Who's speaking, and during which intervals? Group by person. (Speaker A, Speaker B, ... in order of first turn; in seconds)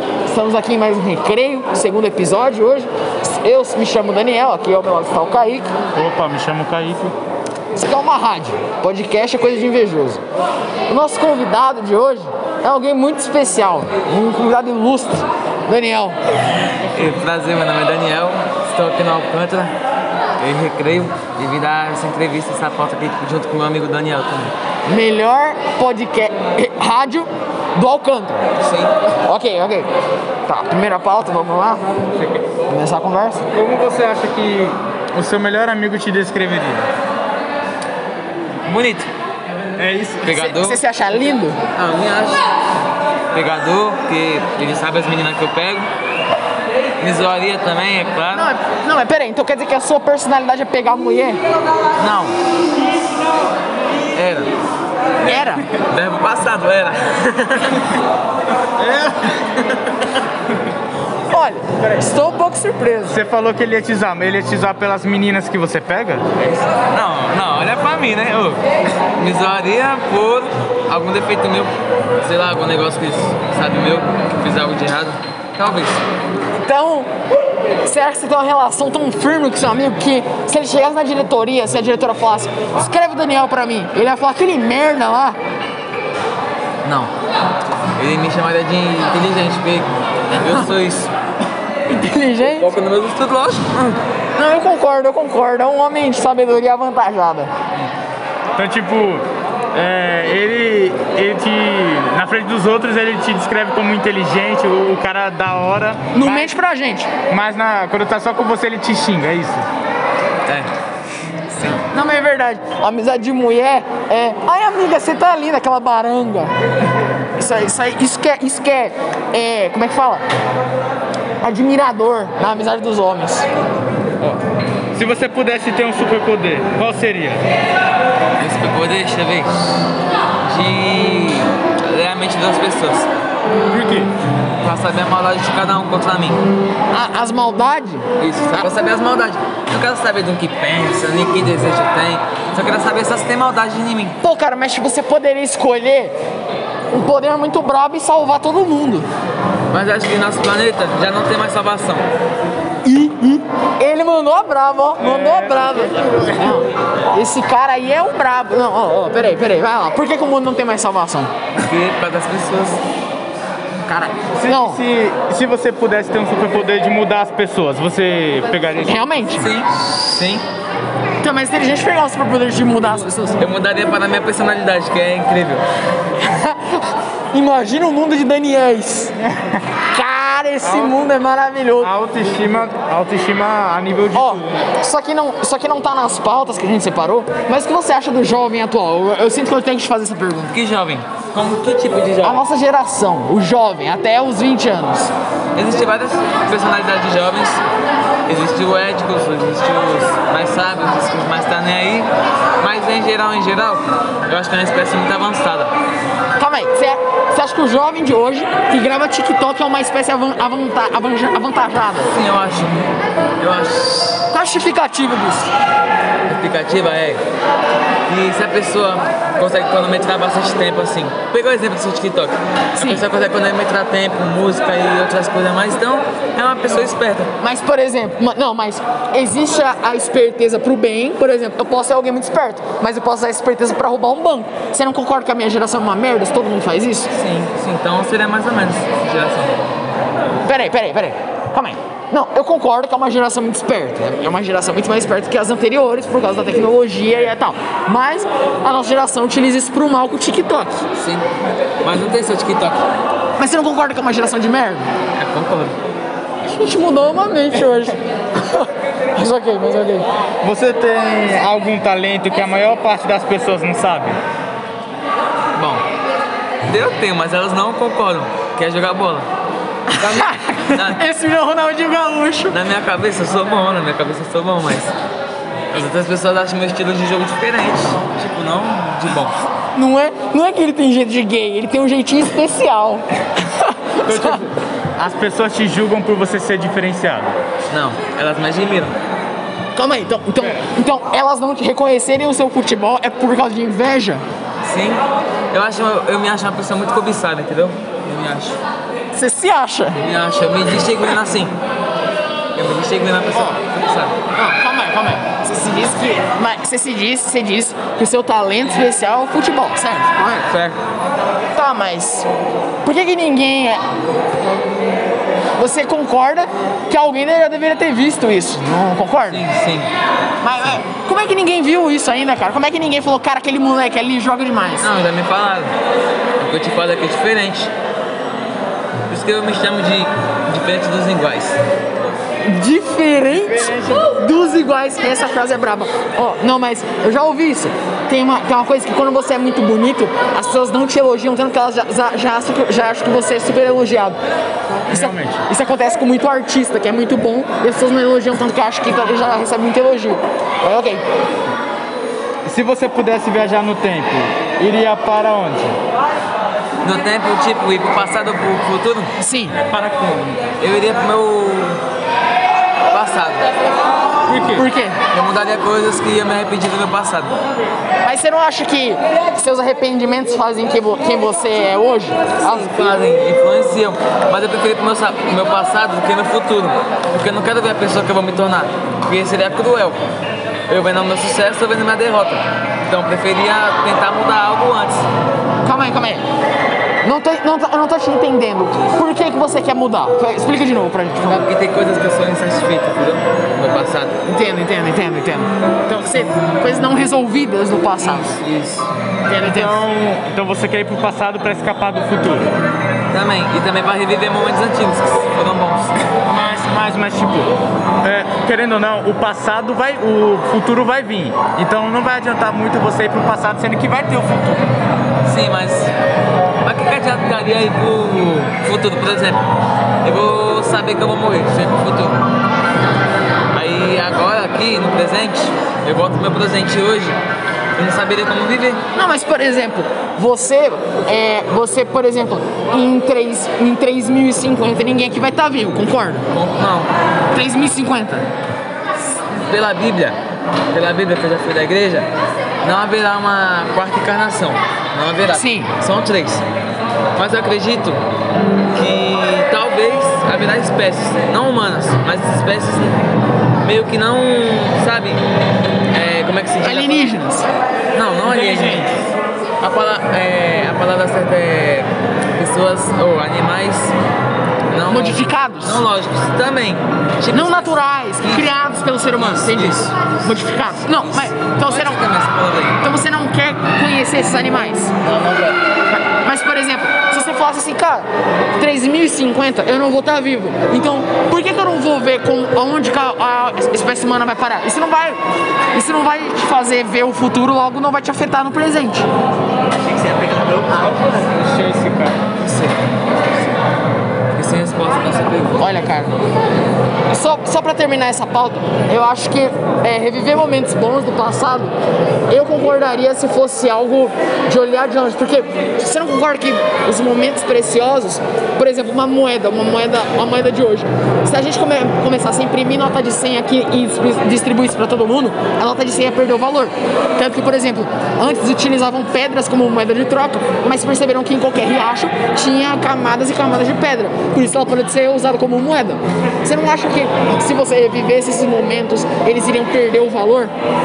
Speaker A: 0.2-5.7, 7.7-10.2, 10.9-16.2, 24.9-28.4, 29.2-29.9, 30.5-31.8, 32.7-33.5, 40.3-41.6, 48.3-51.4, 55.2-55.6, 61.3-63.2, 76.6-77.1, 77.8-85.4, 91.9-92.7, 93.8-97.5, 106.1-107.1, 111.6-116.5, 117.4-120.2, 121.4-123.5, 136.9-138.1, 144.2-146.1, 146.9-149.1, 152.8-161.3, 163.9-164.8, 168.9-169.5, 171.2-173.4, 176.2-179.2, 179.9-181.9, 184.1-190.6, 192.2-195.1, 206.4-212.1, 214.3-215.5, 222.8-223.0, 227.4-237.1, 240.4-250.8, 253.4-254.9, 256.4-260.1, 269.9-272.6, 279.7-284.4, 289.7-294.2, 299.1-300.0, 304.3-310.5, 311.5-312.3, 312.8-313.8, 315.6-319.4, 320.4-324.9, 332.4-344.2, 344.9-351.0, 359.2-359.6, 364.5-365.0, 368.0-372.8, 385.6-386.2, 387.0-391.4, 394.2-398.4, 399.3-399.8, 428.9-436.3, 437.3-438.3, 445.3-445.7, 456.6-457.5, 464.9-465.8, 467.3-472.0, 472.8-474.9, 475.9-485.2, 485.7-489.1, 495.6-496.1, 497.1-501.7, 502.3-530.5
Speaker B: 5.9-7.1, 33.5-36.9, 39.8-40.4, 63.1-66.2, 98.5-106.5, 107.3-109.7, 124.9-127.5, 133.7-134.1, 155.0-156.6, 164.3-169.0, 179.2-179.5, 180.6-180.9, 181.8-184.5, 260.4-264.2, 284.0-287.3, 333.3-334.1, 344.9-345.4, 352.4-355.8, 359.6-360.4, 364.2-364.6, 399.4-402.5, 406.2-414.6, 458.2-459.1, 489.9-492.2
Speaker C: 16.9-19.7, 20.4-24.5, 28.6-28.9, 38.6-39.1, 40.2-40.8, 41.7-42.4, 43.3-45.9, 47.0-48.5, 52.0-52.3, 54.1-54.5, 55.3-57.9, 66.4-68.6, 69.2-76.0, 86.8-87.1, 88.0-91.1, 92.4-93.7, 128.4-129.6, 130.4-133.1, 134.6-136.4, 138.2-144.2, 149.7-152.1, 161.6-162.8, 169.4-170.4, 173.4-175.6, 190.5-192.4, 195.5-197.6, 198.2-205.7, 212.0-214.3, 216.2-217.2, 218.1-227.3, 237.1-239.6, 250.9-251.3, 251.8-252.8, 255.1-255.8, 265.5-265.8, 266.7-269.3, 270.0-271.0, 272.5-274.9, 275.7-279.4, 287.7-288.9, 294.6-298.6, 299.9-301.6, 302.5-304.2, 319.3-319.9, 324.8-325.7, 326.4-327.7, 329.1-331.6, 356.8-359.1, 360.6-361.8, 362.9-363.5, 365.1-367.3, 372.4-380.0, 380.7-385.1, 391.2-394.1, 398.0-398.9, 403.1-406.0, 415.2-415.9, 416.6-419.4, 420.0-422.2, 423.5-427.2, 427.8-428.8, 436.3-436.9, 439.3-440.2, 440.7-442.1, 442.6-446.4, 447.1-448.0, 448.7-453.0, 453.6-455.2, 455.9-457.1, 457.9-458.9, 459.6-463.9, 464.7-472.8, 475.0-475.6, 492.4-492.8, 494.3-495.7